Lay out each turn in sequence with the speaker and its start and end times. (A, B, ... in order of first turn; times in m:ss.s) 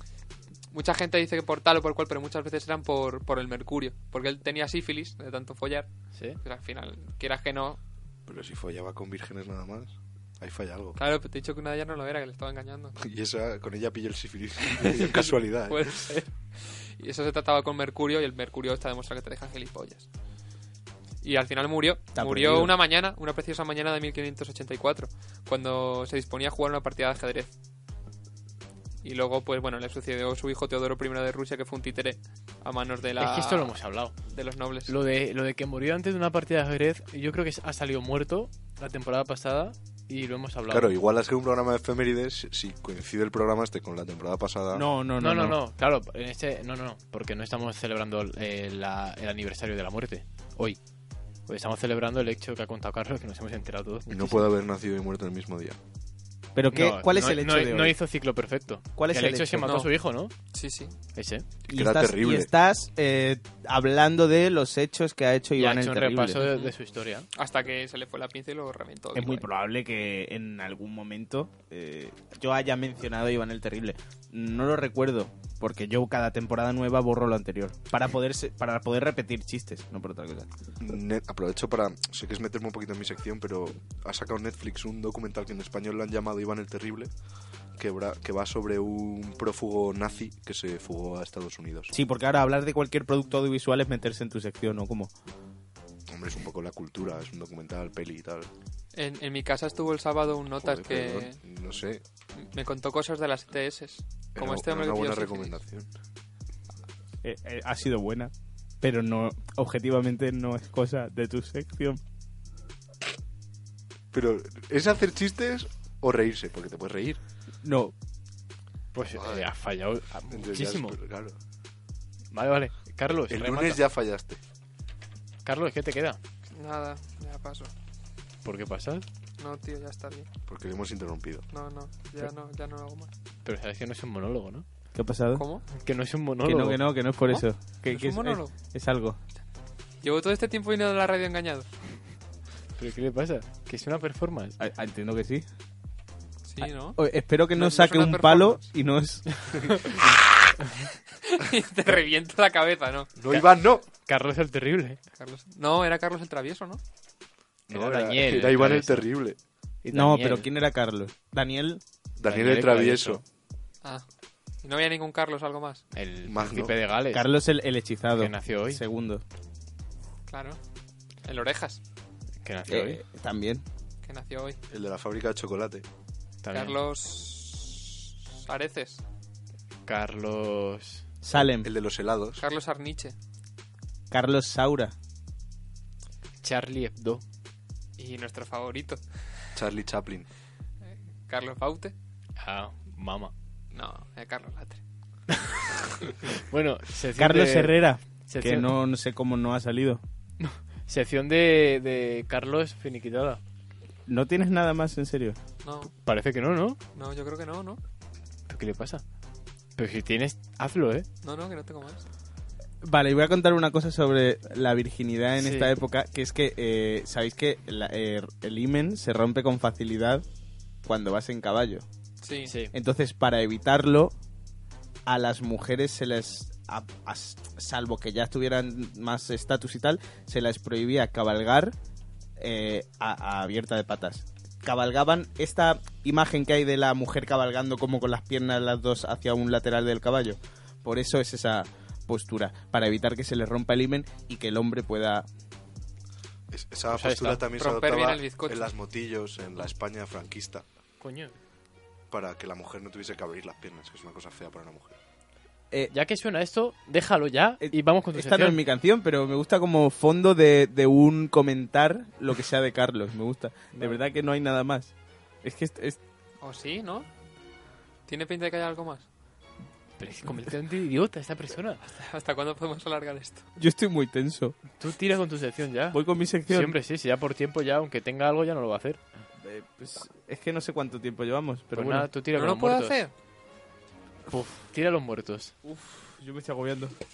0:00.7-0:07.8 A
0:06.1-0:06.4 B
0:08.3-0:11.0 C
0:11.0-0:13.0 A
0:13.0-0:16.1 C
0:15.0-0:20.1 A
0:21.2-0:27.5 A
0:22.2-0:22.8 D
0:29.0-0:33.8 A
0:33.2-0:34.2 B
0:34.3-0:35.0 A
0:34.9-0:40.9 B
0:40.7-0:44.8 C
0:44.7-0:45.6 D
0:45.2-0:50.8 B
0:51.5-0:54.5 B
0:54.1-0:55.8 C
0:56.6-0:58.0 D
0:56.7-1:00.3 B
0:59.0-0:59.8 D
0:59.6-0:59.9 A
1:00.5-1:00.9 A
1:01.2-1:01.5 B
1:01.7-1:02.5 C
1:01.7-1:06.4 D
1:05.6-1:07.3 B
1:06.4-1:06.7 A
1:07.3-1:09.5 A
1:09.2-1:20.5 D
1:20.8-1:27.1 C
1:27.8-1:31.9 C
1:31.9-1:35.1 D
1:36.1-1:38.5 C
1:38.9-1:41.4 A
1:40.6-1:42.0 C
1:42.4-1:45.6 A
1:44.4-1:45.9 C
1:47.2-1:52.0 D
1:54.1-1:57.2 C
1:57.6-1:57.9 D
1:58.9-2:01.0 B
1:59.2-1:59.5 C
2:00.3-2:01.4 C
2:02.3-2:03.8 B
2:03.3-2:04.4 C
2:05.4-2:06.2 B
2:06.5-2:07.7 A
2:08.4-2:09.1 B
2:09.4-2:10.3 A
2:10.5-2:11.5 C
2:11.5-2:13.1 A
2:13.4-2:14.7 B
2:15.0-2:15.4 D
2:15.4-2:15.6 A
2:15.7-2:16.8 B
2:16.4-2:19.2 D
2:17.3-2:18.5 A
2:20.0-2:21.7 A
2:22.8-2:24.6 B
2:24.6-2:25.4 D
2:26.5-2:27.0 A
2:26.6-2:29.9 D
2:27.5-2:28.7 A
2:31.2-2:33.2 A
2:33.2-2:33.8 C
2:33.3-2:35.0 B
2:35.2-2:36.8 A
2:37.7-2:39.4 C
2:37.7-2:39.1 B
2:39.8-2:40.5 B
2:39.9-2:41.8 D
2:42.2-2:43.2 C
2:42.2-2:43.2 B
2:44.6-2:45.8 A
2:45.9-2:47.3 B
2:46.3-2:46.8 C
2:47.1-2:49.2 D
2:48.2-2:48.8 B
2:50.3-2:50.6 A
2:51.2-2:51.8 A
2:52.4-2:53.0 B
2:52.7-2:53.6 D
2:54.0-2:54.6 A
2:54.7-2:55.8 C
2:56.4-2:56.8 B
2:56.5-2:59.0 A
2:59.9-3:01.1 B
3:01.2-3:01.7 D
3:01.6-3:02.4 C
3:02.4-3:03.2 A
3:04.1-3:04.9 D
3:06.4-3:07.2 B
3:08.0-3:09.0 A
3:09.6-3:10.3 C
3:11.3-3:11.9 A
3:12.4-3:13.3 B
3:13.7-3:14.8 A
3:16.4-3:18.7 B
3:17.2-3:20.0 D
3:20.4-3:23.4 B
3:24.1-3:25.4 D
3:25.6-3:25.9 A
3:26.0-3:26.8 B
3:26.9-3:27.8 A
3:28.5-3:29.0 B
3:29.8-3:31.1 B
3:31.2-3:32.1 A
3:32.8-3:40.2 D
3:35.4-3:35.7 B
3:40.8-3:41.8 D
3:42.2-3:42.5 A
3:42.5-3:42.7 B
3:42.7-3:44.1 D
3:45.1-3:51.8 D
3:52.4-4:05.3 D
4:06.5-4:10.6 C
4:06.9-4:07.4 B
4:07.5-4:08.7 A
4:11.0-4:11.4 B
4:12.1-4:15.0 C
4:15.9-4:18.6 B
4:17.6-4:24.9 D
4:25.4-4:26.0 D
4:26.4-4:27.1 A
4:28.1-4:29.1 A
4:30.0-4:31.8 B
4:31.9-4:33.4 A
4:33.6-4:34.6 D
4:34.8-4:39.0 B
4:35.9-4:36.8 D
4:39.4-4:42.1 D
4:41.7-4:43.0 B
4:42.3-4:43.1 A
4:44.3-4:45.5 B
4:45.6-4:47.0 D